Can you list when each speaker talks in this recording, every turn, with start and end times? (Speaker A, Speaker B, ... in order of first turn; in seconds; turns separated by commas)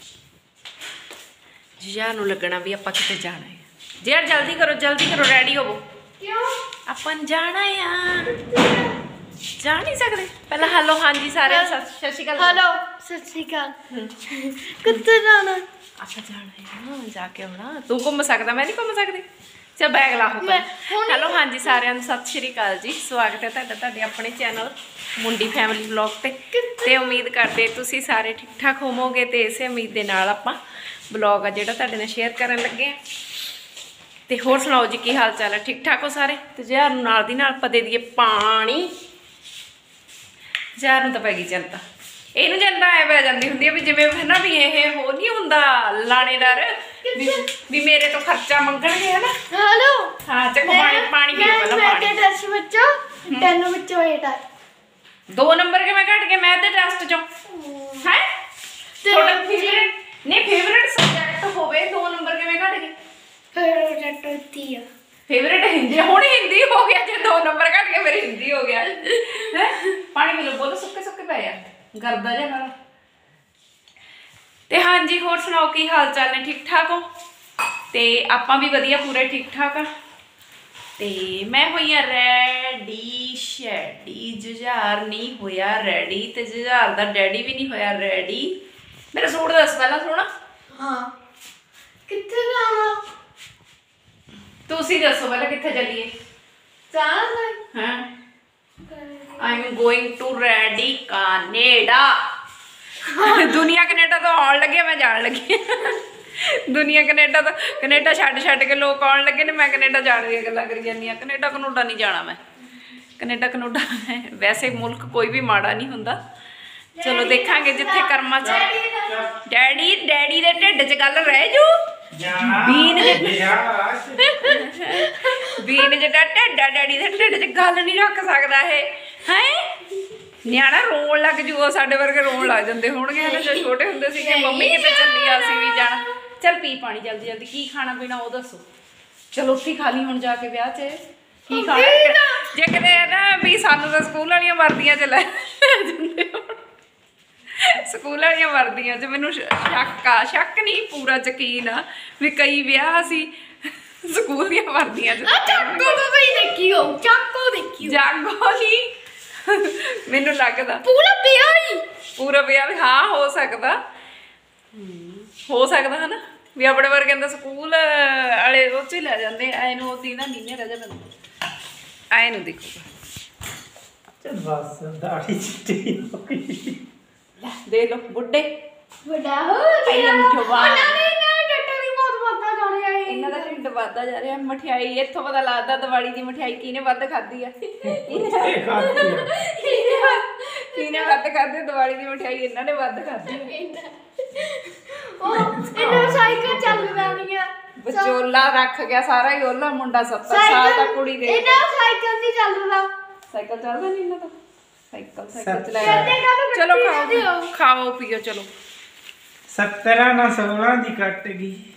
Speaker A: 1.8-5.8, Speaker B: 6.2-6.6, Speaker A: 6.9-8.3, Speaker B: 8.3-9.0, Speaker A: 9.6-12.6, Speaker B: 11.4-11.8, Speaker B: 12.4-13.8, Speaker A: 13.9-14.2, Speaker B: 14.3-15.6, Speaker A: 16.0-19.2, Speaker A: 19.8-30.6, Speaker B: 20.4-21.8, Speaker B: 26.5-27.2, Speaker A: 31.1-33.0, Speaker A: 34.3-38.9, Speaker A: 40.8-41.8, Speaker A: 42.4-49.3, Speaker B: 47.0-47.5, Speaker B: 49.5-54.4, Speaker A: 50.2-52.2, Speaker A: 53.3-53.5, Speaker A: 55.3-57.3, Speaker B: 57.5-58.1, Speaker B: 59.0-59.9, Speaker A: 59.1-62.9, Speaker B: 63.5-64.9, Speaker A: 65.3-72.7, Speaker A: 74.7-77.0, Speaker A: 77.9-79.9, Speaker A: 81.0-88.6, Speaker A: 89.1-90.3, Speaker B: 90.7-91.1, Speaker B: 92.1-93.0, Speaker A: 94.7-96.1, Speaker B: 96.9-97.6, Speaker A: 97.7-98.1, Speaker B: 98.9-99.6, Speaker A: 99.4-102.2, Speaker B: 103.1-103.6, Speaker A: 103.1-112.4, Speaker A: 113.2-116.2, Speaker B: 117.0-119.2, Speaker A: 117.0-118.7, Speaker C: 118.4-119.4, Speaker A: 119.4-121.8, Speaker C: 122.1-124.6, Speaker A: 122.4-123.4, Speaker B: 124.3-125.6, Speaker A: 124.5-129.7, Speaker A: 130.4-138.6, Speaker B: 133.2-136.0, Speaker A: 139.3-146.6, Speaker B: 141.5-142.5, Speaker A: 147.6-153.3, Speaker A: 154.0-156.0, Speaker B: 155.2-158.0, Speaker A: 157.8-158.9, Speaker A: 159.4-160.8, Speaker B: 160.8-161.8, Speaker A: 162.2-163.8, Speaker A: 164.7-171.0, Speaker A: 172.1-172.9, Speaker C: 174.2-176.8, Speaker A: 177.4-178.5, Speaker B: 179.1-183.6, Speaker A: 179.8-181.1, Speaker A: 183.1-193.5, Speaker C: 188.0-189.3, Speaker B: 189.6-190.2, Speaker B: 190.7-191.2, Speaker B: 193.3-198.2, Speaker C: 195.3-197.2, Speaker A: 197.8-201.7, Speaker B: 200.3-202.9, Speaker A: 203.3-204.3, Speaker A: 204.9-208.5, Speaker C: 205.4-206.2, Speaker B: 205.8-207.5, Speaker C: 209.5-211.6